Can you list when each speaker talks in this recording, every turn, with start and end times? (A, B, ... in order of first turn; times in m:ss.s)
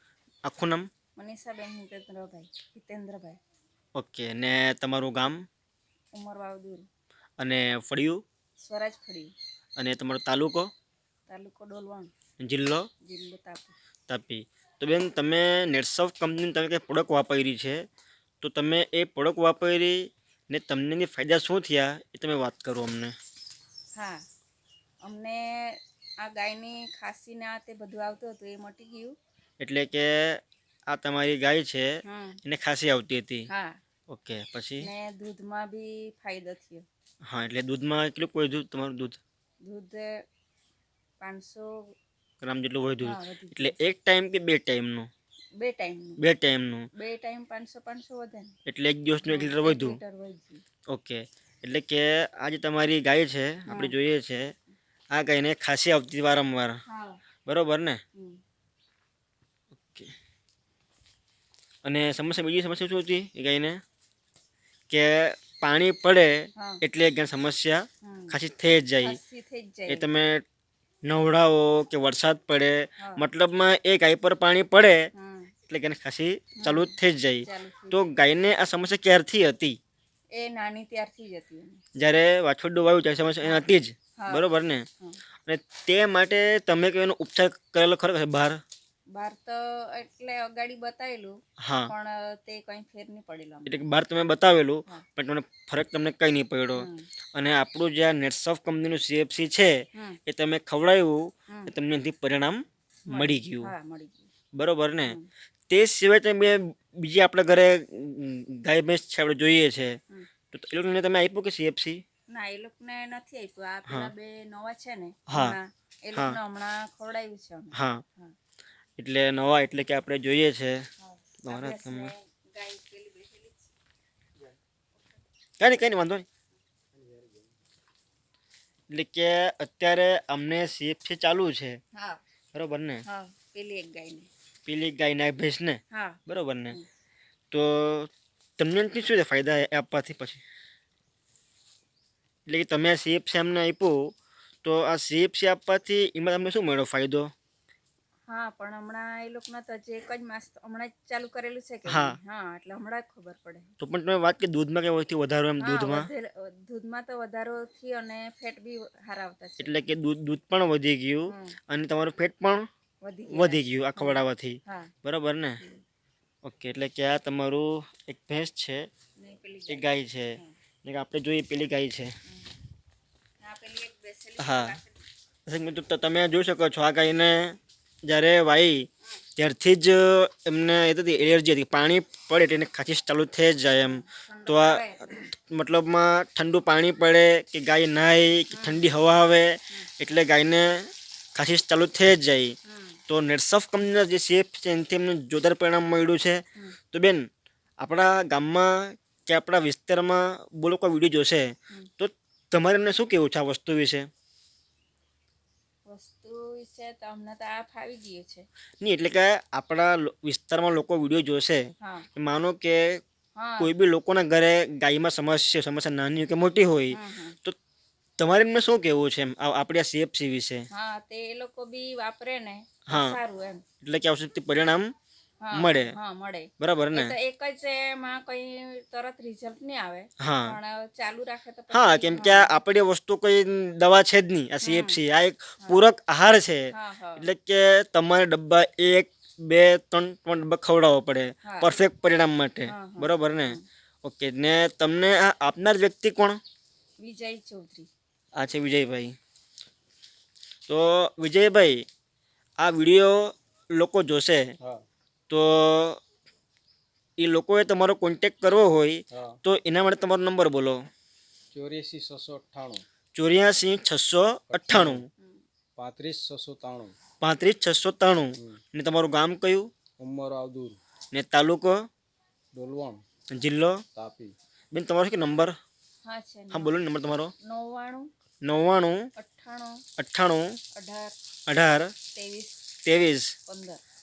0:00.5-0:00.8 A
0:01.2-0:03.4 B
0:04.0-0:05.4 A
0:06.1-0:06.9 B
0:07.4-0:08.2 A
0:08.6-0:09.3 B
0:09.8-0:10.7 A
0:11.3-0:12.1 B
0:12.4-0:12.8 A
0:13.0-0:13.8 B
0:14.1-0:17.8 A
0:18.4-0:20.0 A
0:20.5-0:23.1 A
0:23.9-0:24.2 B
0:25.0-0:29.1 B
0:29.6-0:31.9 A
0:32.0-0:32.4 B
0:32.4-0:33.5 A
0:33.5-0:33.8 B
0:34.1-0:34.9 A
0:34.8-0:36.8 B
0:37.3-0:39.2 A
0:39.6-0:40.1 B
0:41.2-0:41.7 B
0:42.4-0:45.1 A
0:43.0-0:43.8 B
0:45.6-0:46.2 B
0:46.2-0:46.8 A
0:47.0-0:48.5 B
0:48.7-0:50.0 A
0:49.2-0:50.6 B
0:50.9-0:54.4 A
0:53.7-0:54.0 B
0:55.1-0:56.8 A
0:56.9-0:57.2 B
0:57.4-0:58.0 A
0:58.2-0:58.4 B
0:59.8-1:00.1 A
1:01.8-1:03.8 A
1:04.9-1:09.2 A
1:08.0-1:08.4 B
1:09.0-1:10.1 B
1:09.9-1:10.4 A
1:11.1-1:15.1 A
1:13.0-1:13.2 B
1:15.1-1:15.5 B
1:15.7-1:19.8 A
1:16.6-1:18.1 B
1:20.3-1:21.8 B
1:22.0-1:24.8 A
1:24.2-1:24.5 B
1:25.4-1:28.6 A
1:29.1-1:31.4 B
1:31.6-1:31.9 A
1:31.9-1:33.7 B
1:33.6-1:39.7 A
1:36.7-1:37.1 B
1:40.3-1:43.7 A
1:43.1-1:44.3 B
1:44.5-1:45.2 A
1:45.7-1:49.9 A
1:50.5-1:52.0 A
1:52.3-1:58.3 B
1:53.9-1:54.1 A
1:55.3-1:55.6 A
1:57.7-1:58.0 A
1:59.0-2:00.8 A
2:01.0-2:03.8 B
2:01.4-2:02.1 A
2:05.6-2:06.2 A
2:07.0-2:07.4 C
2:08.9-2:11.8 A
2:12.0-2:12.2 B
2:12.5-2:13.0 A
2:13.1-2:14.3 B
2:14.6-2:16.8 A
2:15.9-2:16.8 B
2:17.5-2:20.4 A
2:22.5-2:24.0 A
2:24.6-2:27.3 A
2:28.3-2:33.7 B
2:31.8-2:32.2 A
2:33.8-2:36.1 A
2:35.6-2:39.9 B
2:39.6-2:42.6 A
2:41.3-2:41.6 B
2:43.0-2:44.9 B
2:43.3-2:45.6 A
2:46.4-2:48.9 A
2:49.2-2:50.5 B
2:49.7-2:52.1 A
2:52.3-2:52.6 B
2:53.4-2:55.0 B
2:54.4-2:54.8 A
2:55.4-3:12.6 A
3:03.7-3:05.3 B
3:08.5-3:08.8 B
3:12.7-3:13.0 B
3:13.1-3:17.2 A
3:17.8-3:24.1 A
3:25.8-3:28.4 B
3:28.8-3:31.6 A
3:31.8-3:32.1 B
3:32.1-3:33.0 A
3:33.4-3:33.7 B
3:33.6-3:37.6 A
3:36.9-3:37.4 B
3:38.2-3:40.7 A
3:40.7-3:43.6 B
3:42.9-3:43.2 A
3:43.8-3:44.9 A
3:45.4-3:52.5 B
3:45.5-3:45.9 A
3:46.6-3:47.1 A
3:50.2-3:50.6 A
3:51.7-4:06.4 A
3:54.6-3:55.0 B
3:56.7-3:57.3 B
4:01.4-4:01.8 B
4:02.7-4:03.6 B
4:07.0-4:07.9 B
4:08.4-4:09.1 A
4:10.7-4:11.8 A
4:12.6-4:14.5 A
4:15.3-4:16.0 A
4:17.2-4:20.9 A
4:21.5-4:22.8 C
4:23.1-4:25.1 A
4:24.5-4:25.0 C
4:25.2-4:25.4 B
4:25.8-4:26.9 C
4:27.2-4:29.7 A
4:30.0-4:30.8 C
4:31.1-4:31.8 A
4:32.5-4:33.0 C
4:33.3-4:33.8 A
4:33.9-4:34.3 C
4:34.7-4:35.5 A
4:36.0-4:36.7 B
4:36.5-4:37.3 A
4:37.4-4:38.1 B
4:38.4-4:39.0 A
4:39.2-4:39.8 B
4:40.0-4:40.6 A
4:40.7-4:41.1 B
4:41.5-4:41.9 A
4:42.1-4:42.6 B
4:42.8-4:43.3 A
4:43.5-4:43.8 B